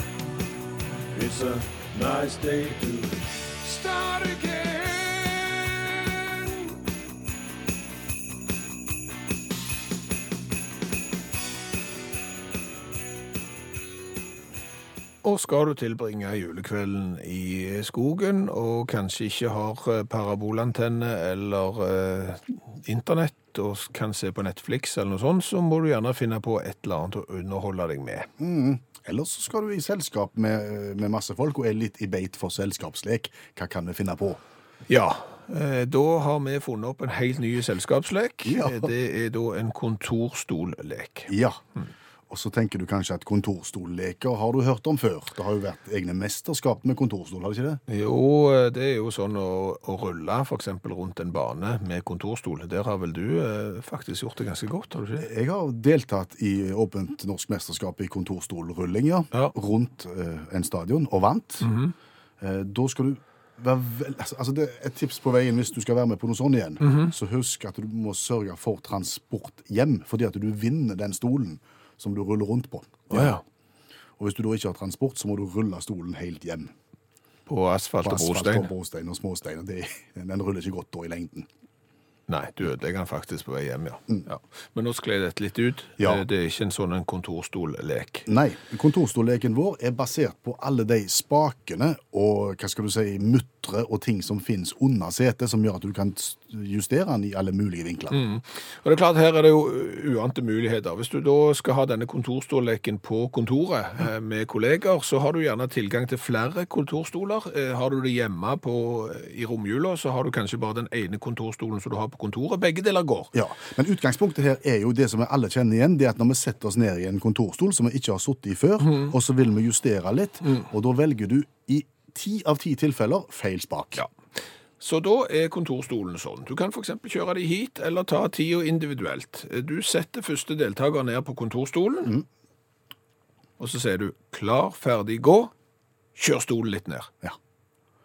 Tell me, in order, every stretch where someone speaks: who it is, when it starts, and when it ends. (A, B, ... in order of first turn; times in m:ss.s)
0:01.1-0:06.7 A
0:15.2-0:28.3 A
0:28.4-0:34.4 B
0:34.9-0:41.3 A
0:38.4-0:38.9 B
0:41.3-0:41.6 B
0:42.3-0:47.8 B
0:47.9-0:55.3 A
0:55.2-1:01.7 B
1:01.6-1:01.9 A
1:02.4-1:13.4 B
1:06.8-1:07.1 A
1:13.1-1:13.4 A
1:14.2-1:16.7 B
1:17.5-1:18.7 A
1:18.0-1:21.5 B
1:22.3-1:28.3 A
1:28.2-1:38.2 B
1:38.1-1:53.3 A
1:53.3-2:04.0 B
2:04.8-2:12.2 A
2:13.6-2:15.5 A
2:16.2-2:17.1 A